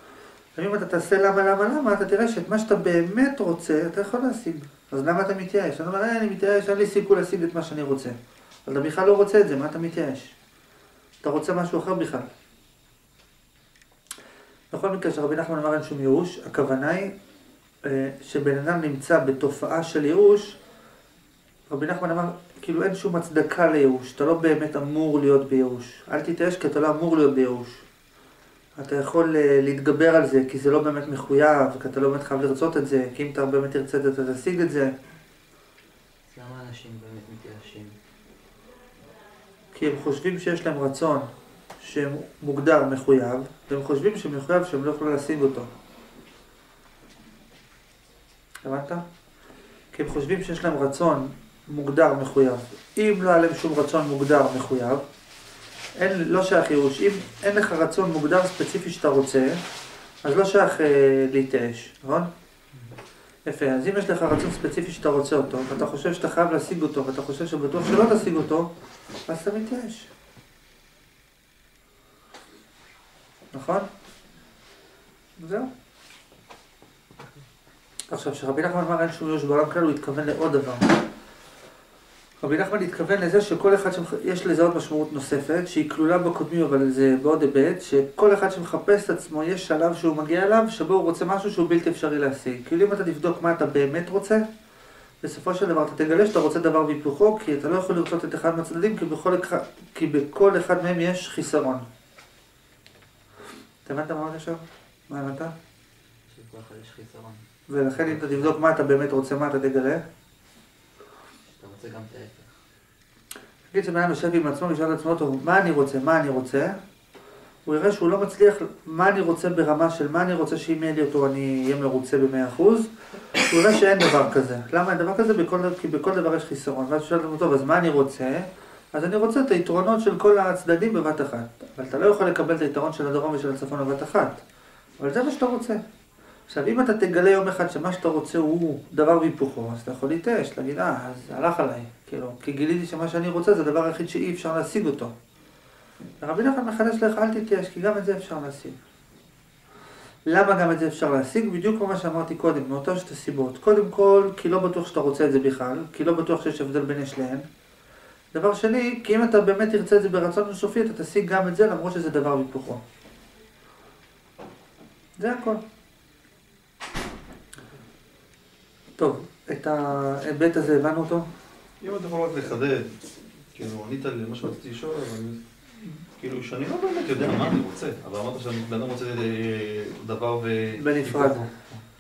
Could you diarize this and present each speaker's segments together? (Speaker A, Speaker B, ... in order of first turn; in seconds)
Speaker A: 0.6-8.2, 8.7-10.3, 11.2-12.3, 14.7-17.1, 17.8-20.6, 21.7-27.9, 28.8-34.9, 39.7-45.7, 48.6-49.0, 49.9-55.0, 56.0-59.6, 60.2-62.3, 63.5-68.7, 69.3-70.1, 73.5-73.9, 75.4-75.7, 78.1-81.0, 82.4-94.4, 95.2-101.8, 103.8-105.5, 107.7-110.0, 113.7-116.8, 117.7-134.4, 135.0-135.8, 136.5-145.1, 146.2-148.8, 150.3-157.5, 158.3-162.8, 165.2-165.6, 169.0-171.3, 180.8-181.5
Speaker B: 36.3-38.0, 106.3-108.6, 111.6-112.5
Speaker C: 171.8-181.8